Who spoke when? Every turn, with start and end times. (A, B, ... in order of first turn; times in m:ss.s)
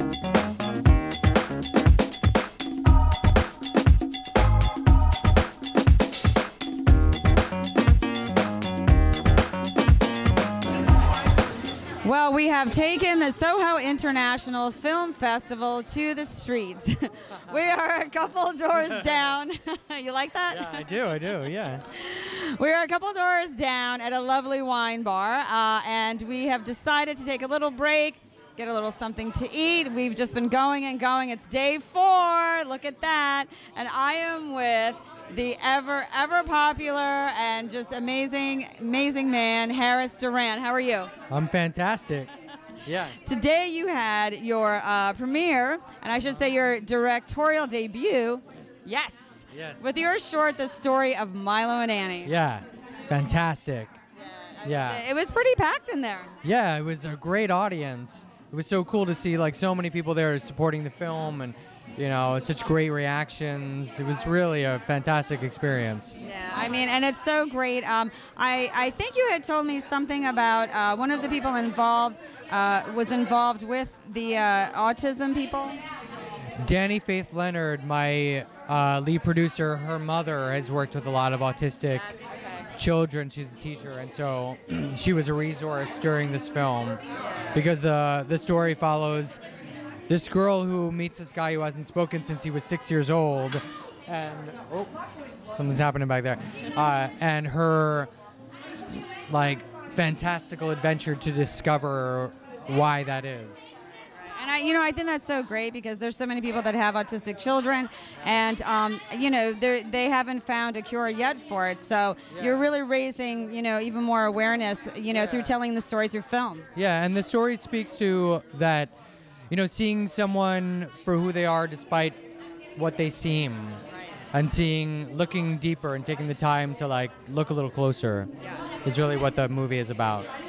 0:12.0-0:20.9 A
0:18.8-0:19.3 B
0:20.5-0:21.8 B
0:21.9-0:41.1 A
0:41.3-0:42.3 B
0:42.8-0:43.2 B
0:43.2-0:52.3 A
0:49.5-0:49.9 B
0:52.2-0:54.0 B
0:54.2-0:56.3 A
0:54.6-0:55.0 B
0:56.4-1:06.2 B
1:06.2-1:15.8 A
1:16.6-1:22.2 B
1:22.3-1:22.6 A
1:22.8-1:27.0 B
1:27.5-1:29.4 B
1:30.1-1:35.0 B
1:35.5-1:38.1 B
1:39.3-1:43.7 B
1:44.4-1:56.7 A
1:52.3-1:52.7 B
1:55.1-1:55.6 B
1:56.8-1:58.9 B
1:59.5-2:02.2 B
2:02.8-2:08.3 B
2:08.8-2:10.3 B